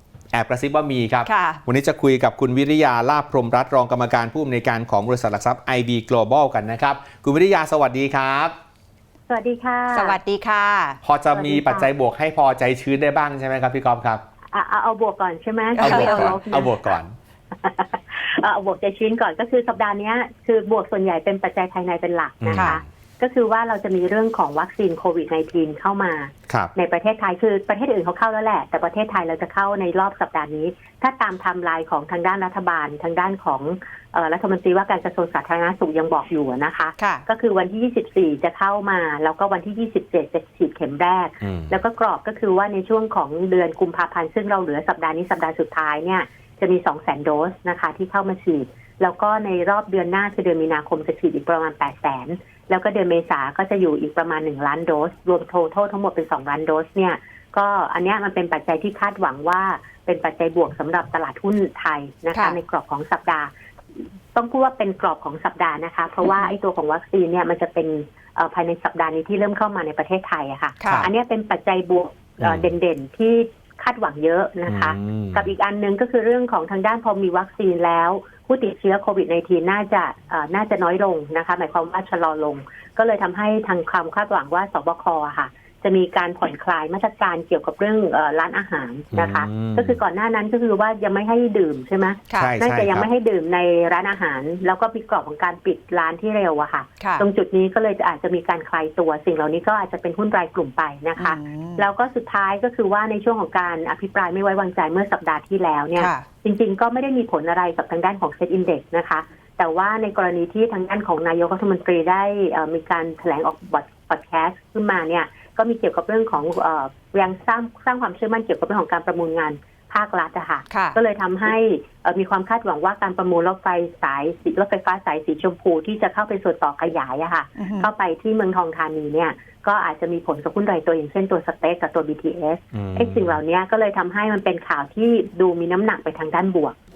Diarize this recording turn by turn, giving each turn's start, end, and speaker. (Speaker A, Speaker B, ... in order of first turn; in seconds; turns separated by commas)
Speaker A: 0.3-8.5, Speaker B: 1.2-1.6, Speaker C: 9.3-10.2, Speaker B: 9.9-11.0, Speaker A: 11.0-14.2, Speaker C: 11.3-11.9, Speaker C: 14.5-16.9, Speaker B: 15.8-16.4, Speaker A: 15.8-17.1, Speaker C: 17.6-63.5, Speaker A: 22.4-22.8, Speaker B: 22.5-22.8, Speaker B: 37.0-37.2, Speaker A: 41.4-41.7, Speaker C: 64.3-136.8, Speaker B: 66.2-66.5, Speaker B: 70.8-71.1, Speaker A: 72.4-72.7, Speaker A: 74.7-75.5, Speaker A: 89.1-90.0, Speaker B: 92.3-92.5, Speaker A: 92.3-93.1, Speaker B: 97.0-97.2, Speaker B: 101.2-101.9, Speaker B: 106.0-106.2, Speaker B: 120.7-121.0, Speaker B: 127.6-127.9, Speaker A: 132.7-133.4